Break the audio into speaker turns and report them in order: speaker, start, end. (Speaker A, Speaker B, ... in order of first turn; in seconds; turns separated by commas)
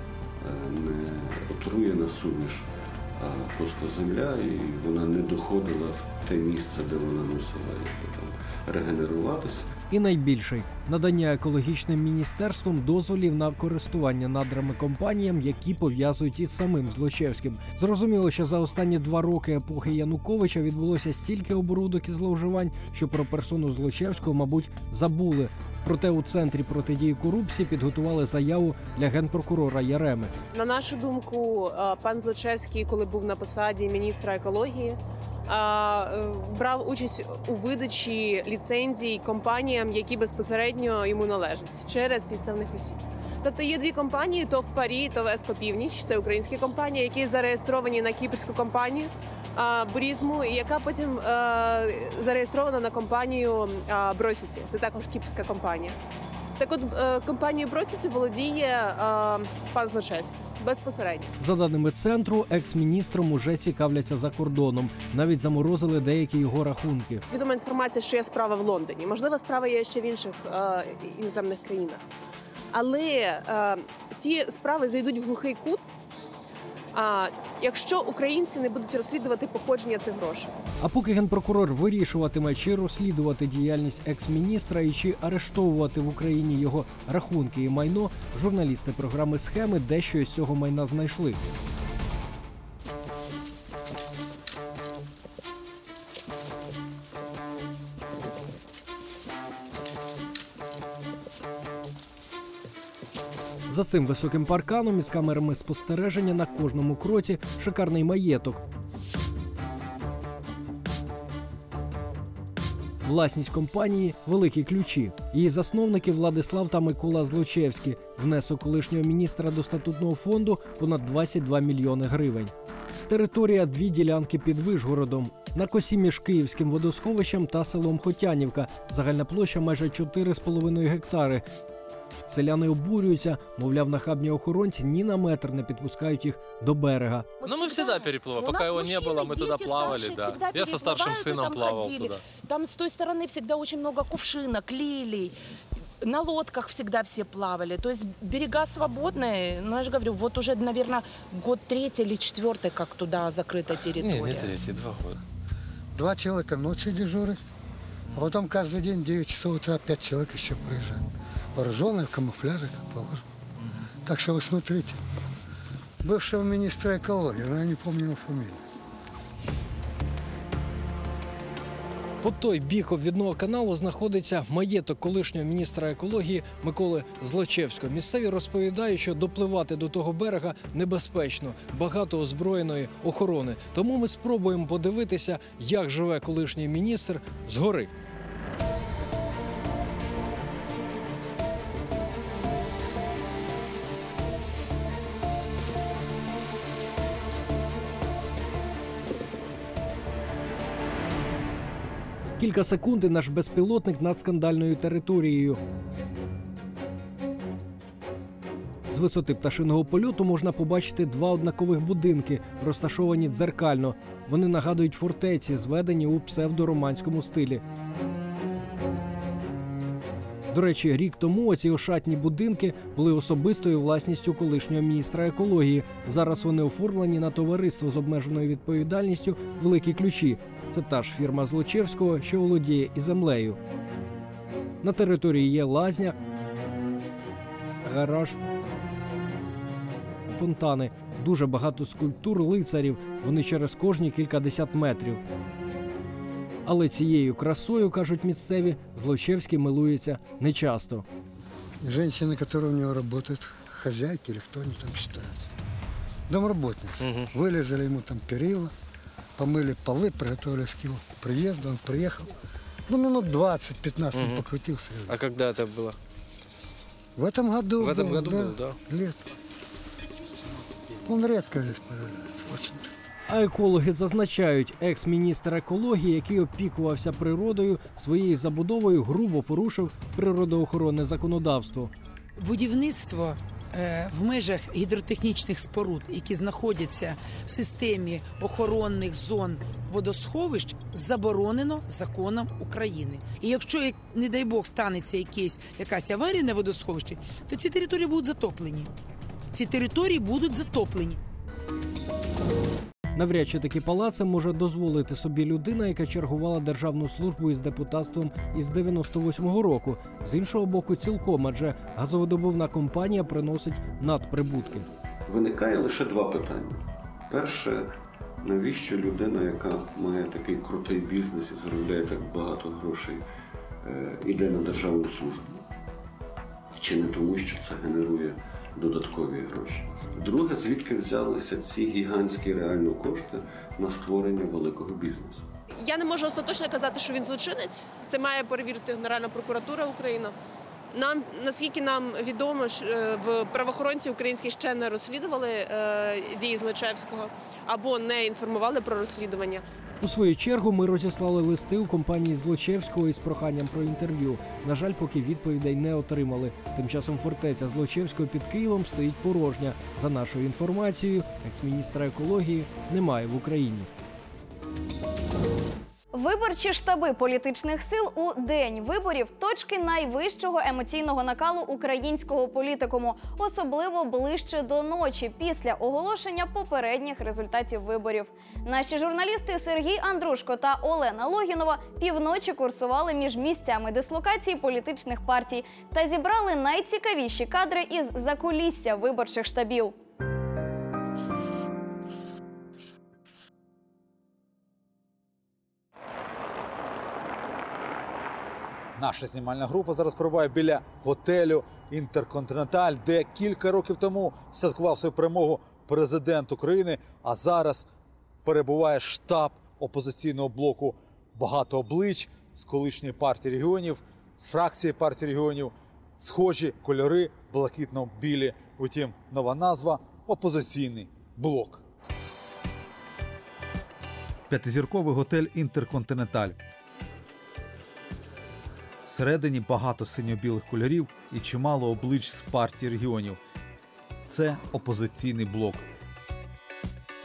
Speaker A: 0.4-9.7, Speaker B: 9.9-30.3, Speaker C: 30.5-55.9, Speaker C: 56.6-61.3, Speaker B: 61.4-67.2, Speaker C: 67.3-72.0, Speaker C: 72.7-75.9, Speaker C: 76.9-80.5, Speaker B: 80.8-91.4, Speaker B: 103.7-108.6, Speaker B: 113.0-122.5, Speaker B: 123.1-131.4, Speaker B: 132.3-137.3, Speaker D: 137.4-142.2, Speaker E: 137.4-145.3, Speaker E: 146.0-154.5, Speaker D: 154.0-155.2, Speaker F: 155.9-157.4, Speaker F: 158.1-161.0, Speaker F: 161.5-163.2, Speaker F: 164.0-165.0, Speaker F: 166.0-168.6, Speaker B: 172.2-187.9, Speaker B: 202.4-205.6, Speaker B: 208.9-217.6, Speaker B: 220.5-233.6, Speaker B: 234.8-236.2, Speaker B: 237.8-238.4, Speaker B: 240.3-245.2, Speaker B: 246.7-251.0, Speaker F: 251.8-255.3, Speaker F: 256.3-258.7, Speaker D: 257.0-257.3, Speaker F: 259.4-262.3, Speaker F: 262.9-265.2, Speaker D: 264.1-264.5, Speaker D: 265.1-266.0, Speaker F: 267.2-269.2, Speaker D: 267.8-268.8, Speaker F: 271.0-272.9, Speaker B: 273.3-281.9, Speaker G: 282.4-298.9, Speaker G: 299.5-301.2, Speaker B: 303.1-314.9, Speaker A: 315.3-323.2, Speaker A: 323.8-325.6, Speaker A: 326.8-335.4, Speaker C: 335.7-340.3, Speaker C: 340.9-349.6, Speaker B: 350.0-363.9, Speaker H: 366.1-389.9, Speaker I: 398.9-407.9, Speaker I: 408.4-421.8, Speaker I: 424.5-426.6, Speaker I: 429.1-433.4, Speaker I: 434.2-435.8